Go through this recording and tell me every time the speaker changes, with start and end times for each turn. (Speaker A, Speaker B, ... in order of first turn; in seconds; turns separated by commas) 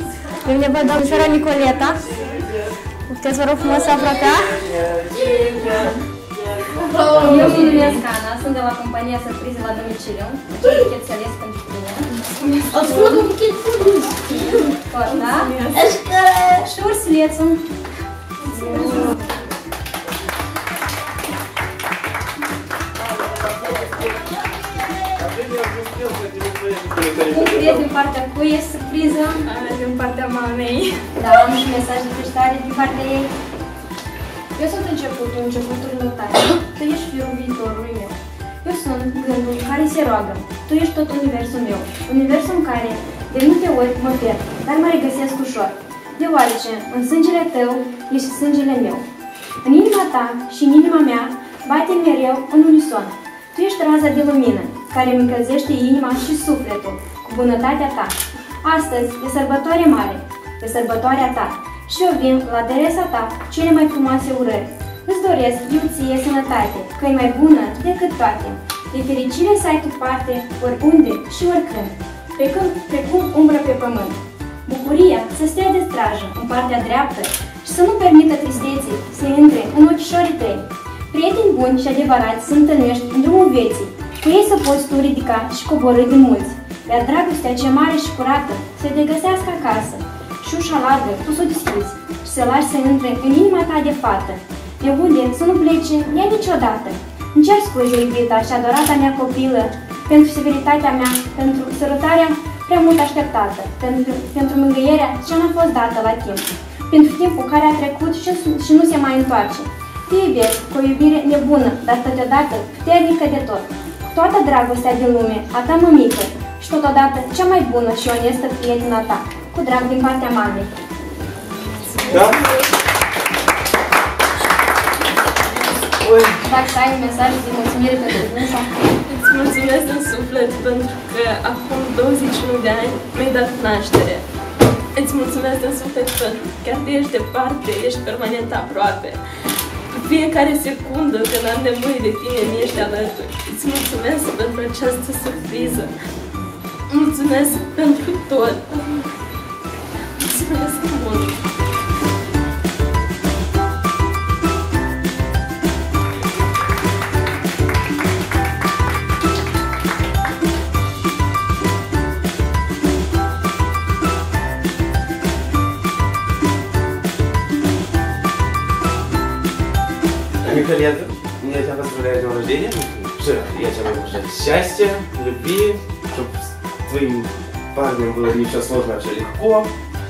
Speaker A: 0.4-2.0, Speaker B: 0.8-2.7, Speaker A: 3.1-4.5, Speaker C: 3.6-4.5, Speaker B: 4.0-6.0, Speaker C: 5.1-5.9, Speaker C: 6.5-7.9, Speaker B: 7.0-7.5, Speaker A: 7.2-12.1, Speaker D: 7.2-7.9, Speaker D: 12.4-13.2, Speaker C: 12.7-14.7, Speaker A: 14.7-15.5, Speaker D: 15.0-15.9, Speaker C: 15.7-16.6, Speaker A: 16.6-17.6, Speaker D: 18.6-19.1, Speaker A: 18.6-19.1, Speaker C: 23.6-25.2, Speaker B: 25.1-27.9, Speaker A: 27.3-29.5, Speaker D: 29.4-31.1, Speaker A: 31.1-33.3, Speaker A: 34.5-49.0, Speaker A: 49.6-120.8, Speaker D: 121.9-122.5, Speaker A: 122.0-122.2, Speaker B: 122.1-122.4, Speaker B: 126.0-126.4, Speaker A: 126.4-128.7, Speaker D: 129.1-134.2, Speaker D: 134.9-139.2, Speaker D: 139.9-145.9, Speaker D: 146.9-149.1, Speaker D: 150.2-151.4, Speaker B: 170.4-179.7